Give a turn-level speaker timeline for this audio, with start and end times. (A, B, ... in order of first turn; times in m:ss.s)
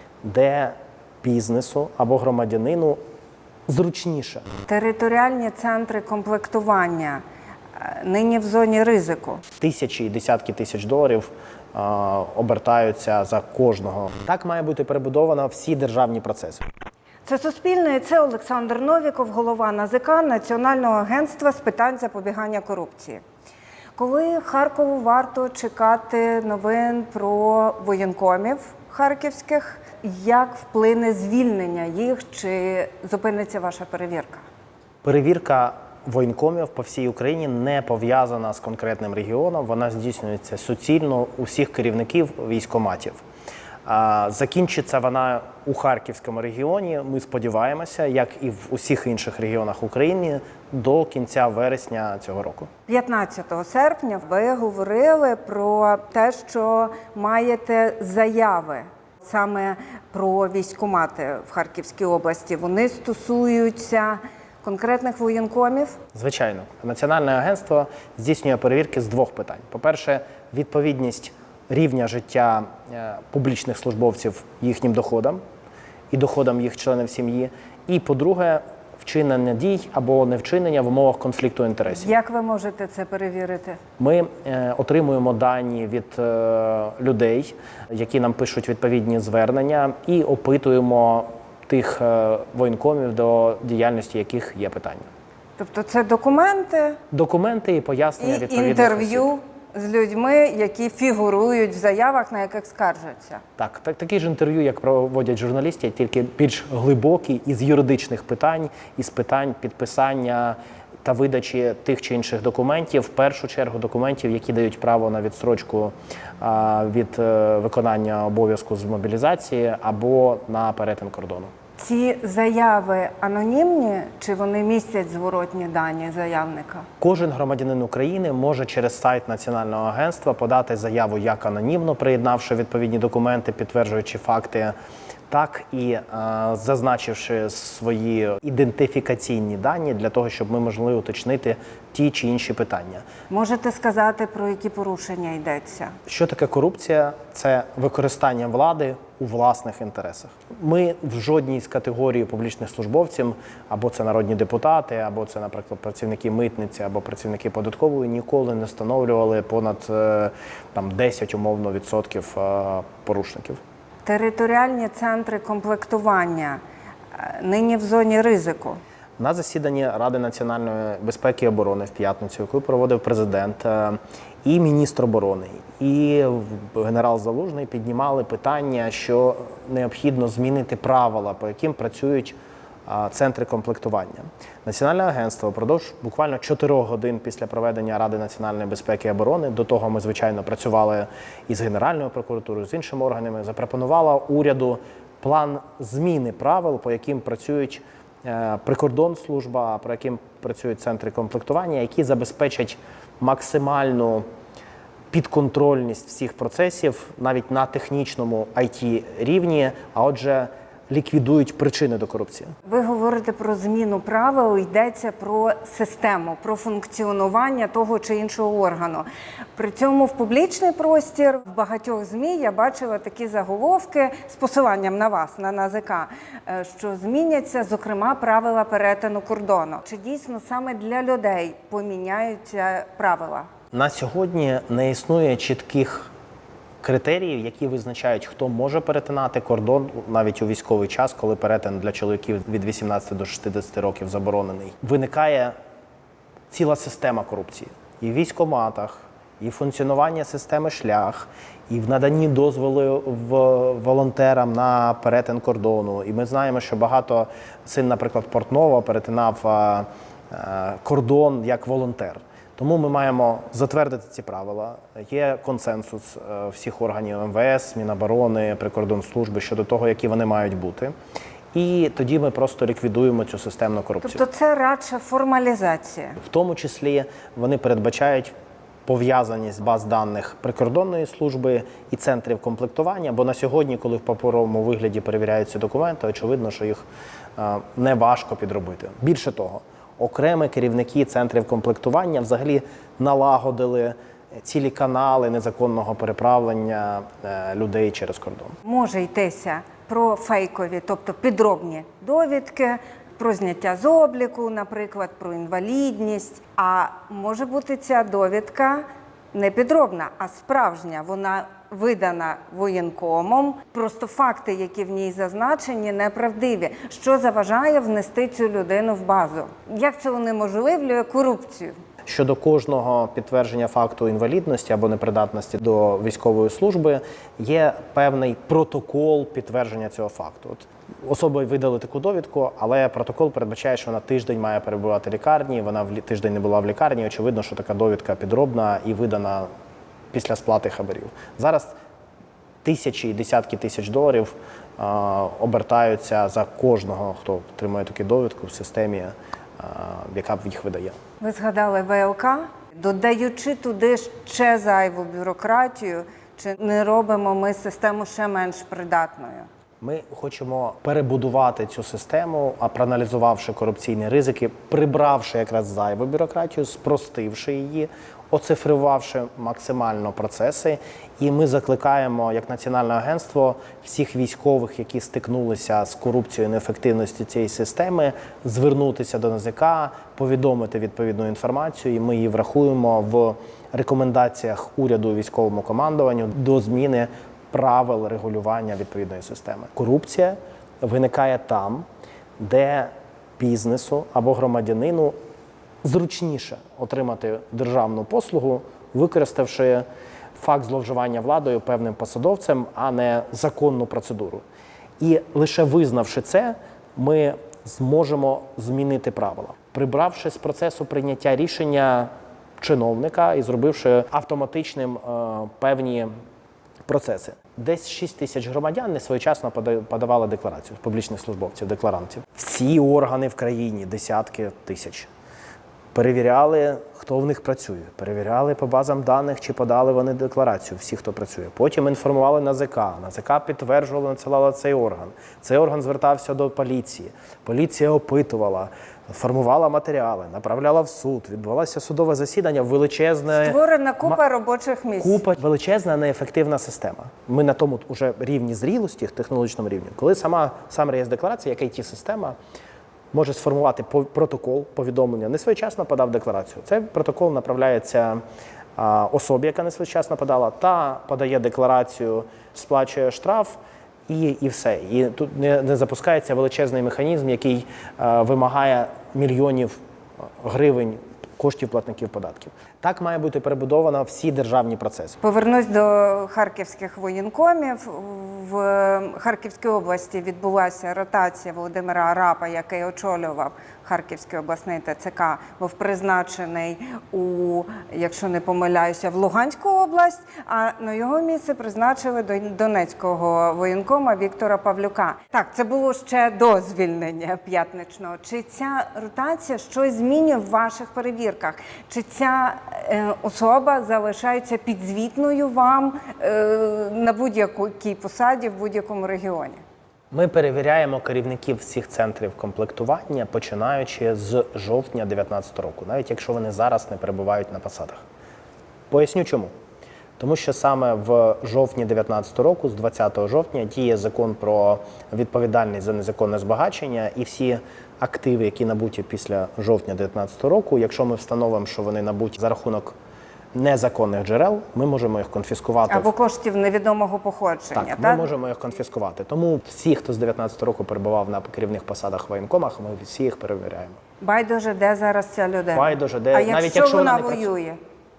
0:00.2-0:03.0 A
0:03.7-0:04.4 A
0:04.7-0:07.2 B
0:07.8-0:09.4 B
0:09.6-0:16.6 A
0:17.2-0:23.2 B
0:24.0-0:34.4 B
0:35.0-0:43.2 A
0:43.8-0:52.7 A
0:52.9-1:06.0 B
1:06.1-1:15.4 A
1:16.1-1:22.1 A
1:21.9-1:23.8 B
1:24.0-1:35.1 A
1:35.6-1:37.0 B
1:37.1-1:39.3 A
1:38.2-1:43.4 B
1:43.6-2:01.5 A
2:01.8-2:06.8 B
2:07.0-2:14.7 A
2:15.3-2:23.0 A
2:23.3-2:26.0 B
2:26.1-2:43.6 A
2:44.0-2:46.6 B
2:47.1-2:48.8 B
2:49.2-3:02.4 A
3:02.9-3:24.2 A
3:25.1-3:32.5 A
3:32.6-3:53.5 B
3:53.7-3:56.1 A
3:56.8-4:05.5 A
4:06.5-4:30.9 A
4:31.5-4:34.2 A
4:34.0-4:36.2 B
4:36.2-4:38.3 A
4:38.8-4:46.8 A
4:47.4-4:58.6 A
4:58.6-5:21.8 B
5:22.0-5:39.5 A
5:40.1-5:41.7 A
5:42.6-5:51.0 A
5:51.2-5:59.5 B
5:59.8-6:31.8 A
6:32.4-6:35.2 A
6:35.8-6:39.8 A
6:40.4-6:44.4 A
6:45.0-6:56.1 A
6:56.8-7:05.1 A
7:05.9-7:24.2 A
7:23.3-7:25.2 B
7:25.0-7:32.4 A
7:33.1-7:38.2 A
7:38.8-7:49.8 A
7:50.4-7:55.2 A
7:55.2-8:29.6 B
8:30.1-8:38.0 A
8:38.9-8:39.5 A
8:40.2-8:52.9 A
8:53.5-8:56.1 A
8:55.9-8:58.3 B
8:57.7-9:04.0 A
9:04.2-9:07.8 B
9:05.7-9:07.5 A